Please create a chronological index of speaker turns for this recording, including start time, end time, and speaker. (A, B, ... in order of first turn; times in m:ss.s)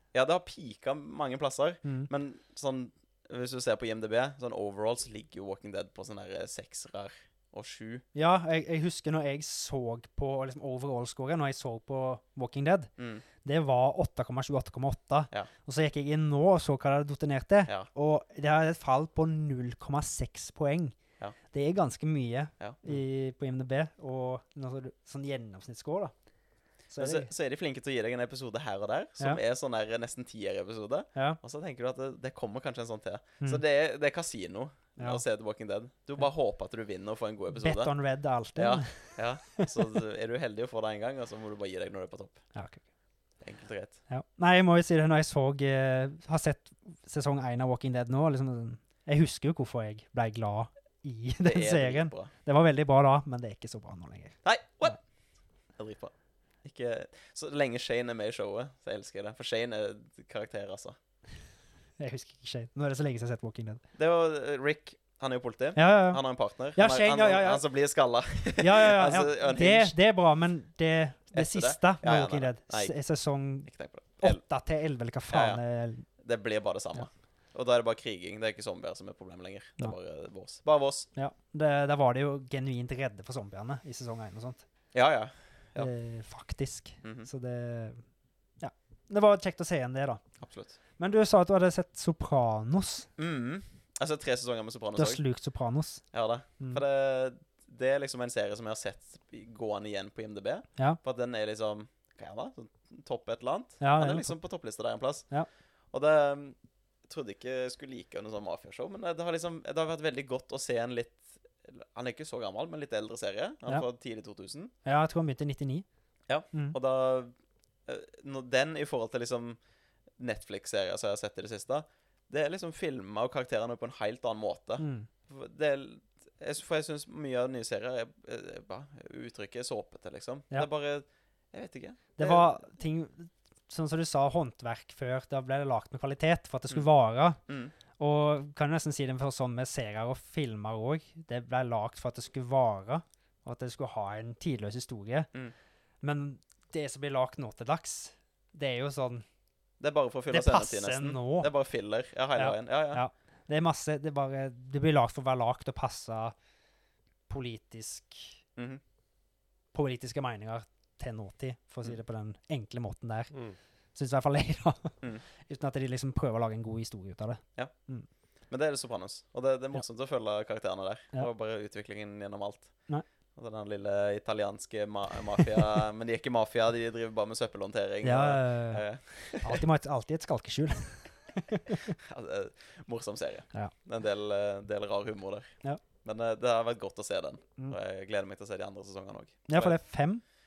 0:00.1-0:08.0 A
0:08.1-0:12.9 B
0:13.0-0:13.2 A
0:13.4-0:21.0 B
0:21.5-0:26.1 B
0:22.6-0:23.0 A
0:26.9-0:27.3 B
0:27.0-0:37.9 A
0:37.5-0:39.7 B
0:38.6-0:42.4 A
0:42.5-0:42.8 B
0:43.4-0:44.0 A
0:44.1-0:54.4 B
0:51.4-0:52.3 A
0:54.4-0:55.0 A
0:55.8-0:56.1 A
0:56.6-1:01.0 A
1:02.0-1:03.8 B
1:04.0-1:09.9 A
1:05.8-1:06.2 B
1:06.7-1:07.6 B
1:08.6-1:13.7 B
1:11.3-1:12.9 A
1:13.6-1:14.4 A
1:14.2-1:16.0 B
1:15.3-1:15.6 A
1:16.2-1:21.1 A
1:21.1-1:24.6 B
1:24.9-1:25.9 A
1:25.8-1:28.0 B
1:27.0-1:27.3 A
1:28.6-1:30.2 B
1:30.4-1:30.8 A
1:31.0-1:33.1 B
1:33.2-1:35.2 A
1:35.0-1:36.0 B
1:36.1-1:45.3 A
1:43.8-1:44.3 B
1:45.9-1:46.6 A
1:47.1-1:54.7 A
1:54.8-1:55.8 B
1:56.3-1:57.3 A
1:57.9-1:59.6 A
2:00.2-2:12.6 A
2:04.8-2:05.1 B
2:12.2-2:17.4 B
2:17.5-2:17.7 A
2:18.0-2:25.3 B
2:26.0-2:29.2 B
2:29.8-2:33.0 A
2:30.3-2:31.5 B
2:32.4-2:36.3 B
2:37.3-2:38.4 B
2:38.6-2:38.8 A
2:39.7-2:43.3 B
2:43.9-2:48.1 B
2:48.5-2:59.6 A
2:58.0-2:58.8 B
2:59.4-3:01.9 B
3:02.0-3:09.8 A
3:09.5-3:10.2 B